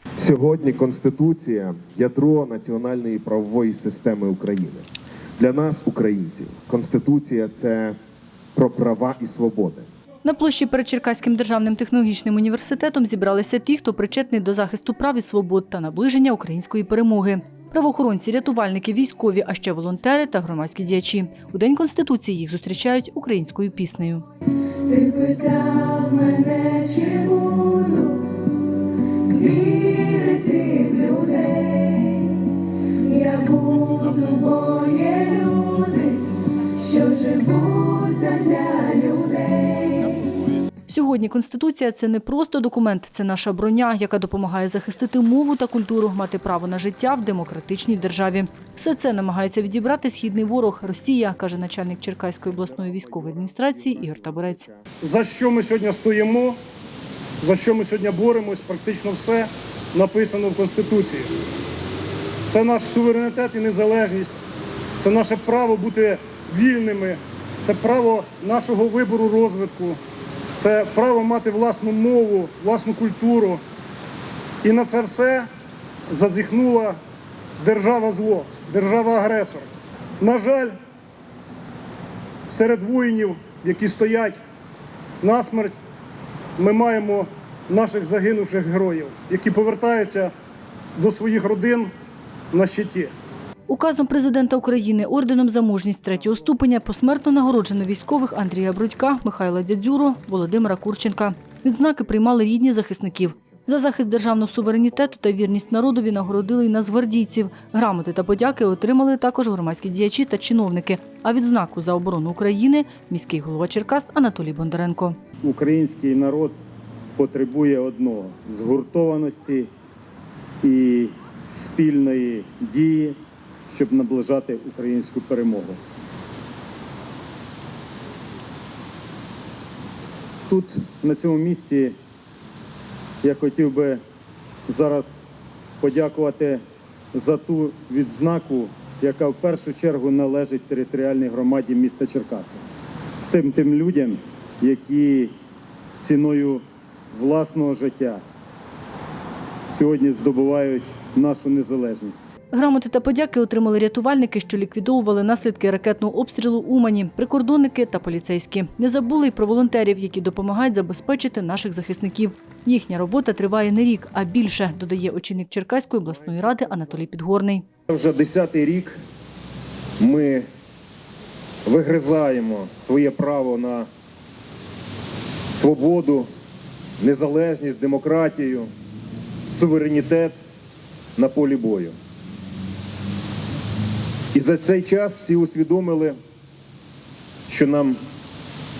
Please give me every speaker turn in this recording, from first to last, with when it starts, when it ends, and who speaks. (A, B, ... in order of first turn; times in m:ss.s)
0:00.2-0:04.8 A
0:05.4-0:08.0 A
0:08.5-0:09.9 A
0:10.2-0:24.2 B
0:24.8-0:28.3 C
0:29.3-0:32.3 C
0:32.9-0:36.2 C
0:36.8-0:40.2 C
0:40.9-0:54.6 B
0:52.4-0:54.8 A
0:55.0-0:56.6 D
0:57.4-1:01.3 D
1:02.4-1:04.4 D
1:05.0-1:10.0 D
1:10.6-1:13.6 D
1:14.6-1:15.5 D
1:16.1-1:17.0 D
1:17.6-1:19.6 D
1:20.2-1:20.7 D
1:22.5-1:24.4 D
1:25.2-1:25.8 D
1:26.6-1:30.3 D
1:31.0-1:31.9 D
1:32.5-1:33.1 D
1:33.7-1:55.2 B
1:55.4-1:56.6 E
1:57.2-1:59.7 E
2:00.6-2:05.8 E
2:10.5-2:12.0 E
2:13.2-2:14.0 E
2:14.7-2:15.2 E
2:15.8-2:16.6 E
2:17.1-2:22.6 E
2:23.2-2:25.3 E
2:26.0-2:28.2 E
2:29.7-2:32.3 E
2:32.5-2:47.6 B
2:47.9-2:49.0 A
2:50.0-2:50.4 A
2:51.6-2:53.9 A
2:55.5-2:56.3 A
2:57.0-2:58.7 A
2:59.5-3:00.4 A
3:01.2-3:01.9 A
3:04.3-3:06.2 A
3:07.5-3:08.0 A